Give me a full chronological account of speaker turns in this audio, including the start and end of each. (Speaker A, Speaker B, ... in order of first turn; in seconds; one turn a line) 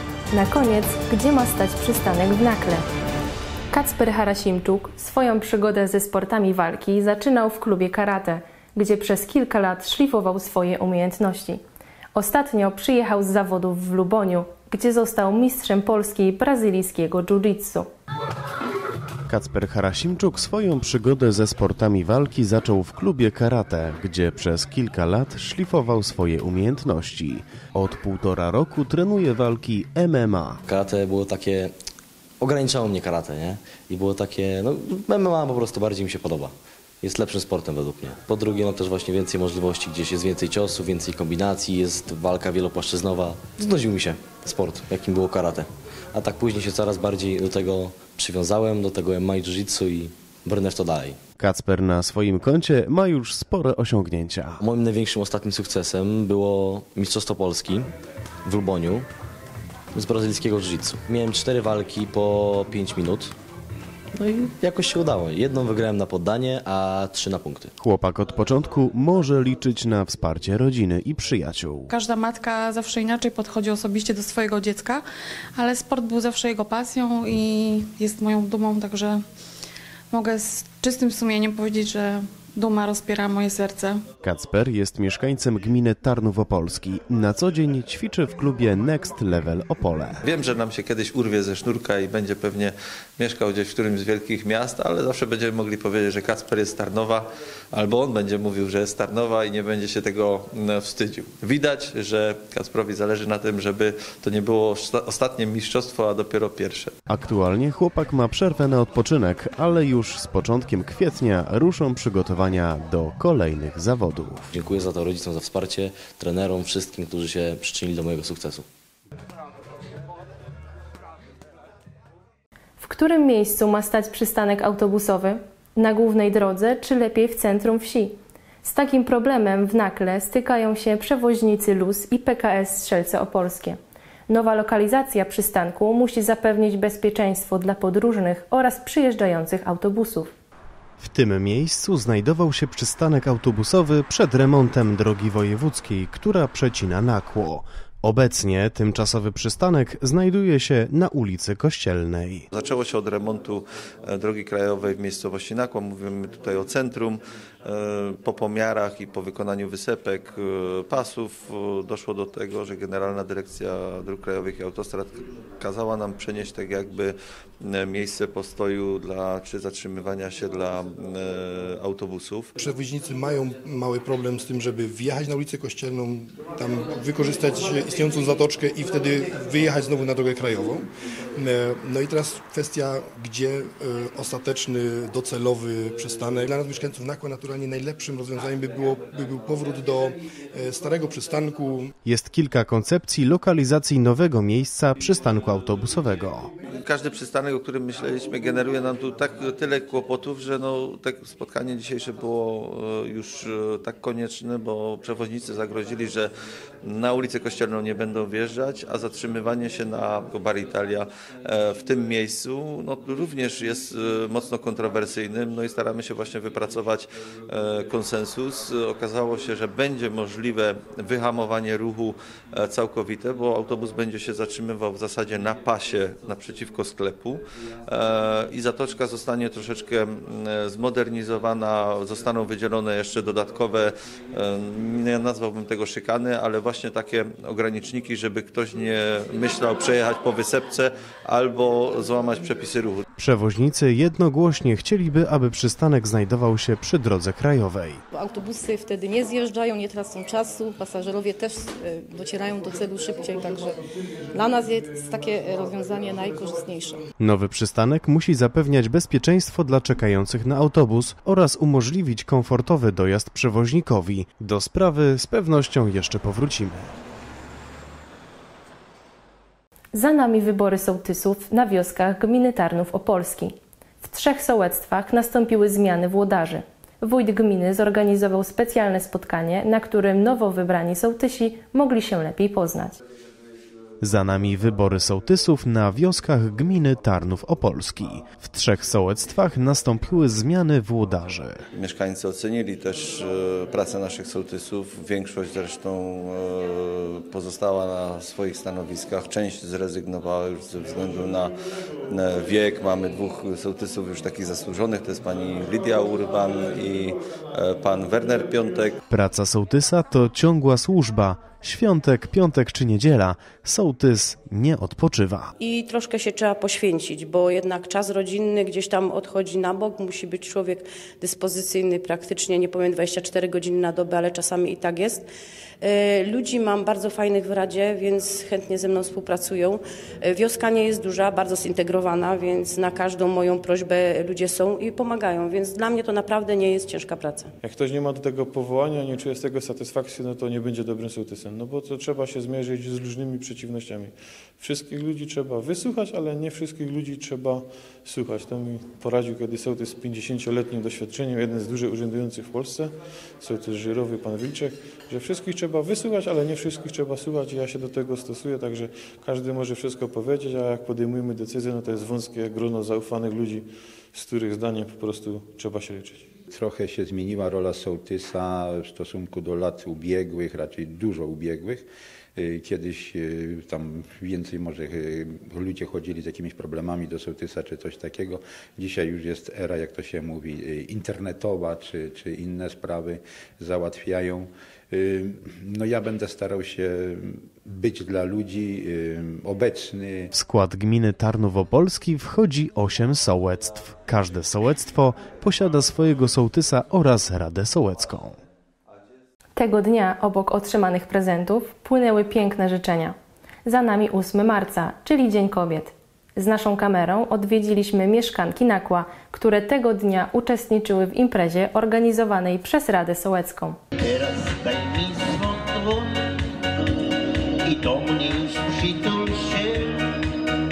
Speaker A: 0.3-2.9
Speaker A: 3.7-11.6
Speaker A: 12.2-17.9
Speaker B: 19.3-30.6
Speaker C: 30.7-31.7
Speaker C: 32.4-51.2
Speaker B: 51.4-54.6
Speaker C: 54.6-57.9
Speaker C: 58.5-59.1
Speaker C: 59.9-63.3
Speaker C: 64.2-67.7
Speaker B: 67.8-71.9
Speaker D: 71.9-79.2
Speaker D: 80.1-84.0
Speaker B: 84.2-90.2
Speaker E: 90.2-107.0
Speaker B: 107.1-114.5
Speaker C: 114.5-118.7
Speaker A: 122.8-133.8
Speaker A: 134.3-140.3
Speaker B: 141.0-152.5
Speaker E: 152.5-172.5
Speaker F: 172.6-180.8
Speaker F: 181.4-191.9
Speaker B: 192.1-196.5
Speaker E: 196.8-206.3
Speaker E: 206.8-243.0
Speaker B: 243.2-248.0
Speaker G: 248.1-253.8
Speaker G: 254.3-257.0
Speaker B: 257.2-266.9
Speaker A: 269.9-283.0
Speaker B: 284.0-291.6
Speaker E: 291.8-301.5
Speaker E: 302.1-309.0
Speaker B: 309.1-315.5
Speaker H: 315.6-325.3
Speaker H: 325.8-337.5
Speaker I: 337.6-366.3
Speaker J: 366.5-371.9
Speaker J: 372.4-390.3
Speaker B: 390.3-398.4
Speaker A: 399.6-413.8
Speaker K: 414.1-416.0
Speaker K: 417.7-419.7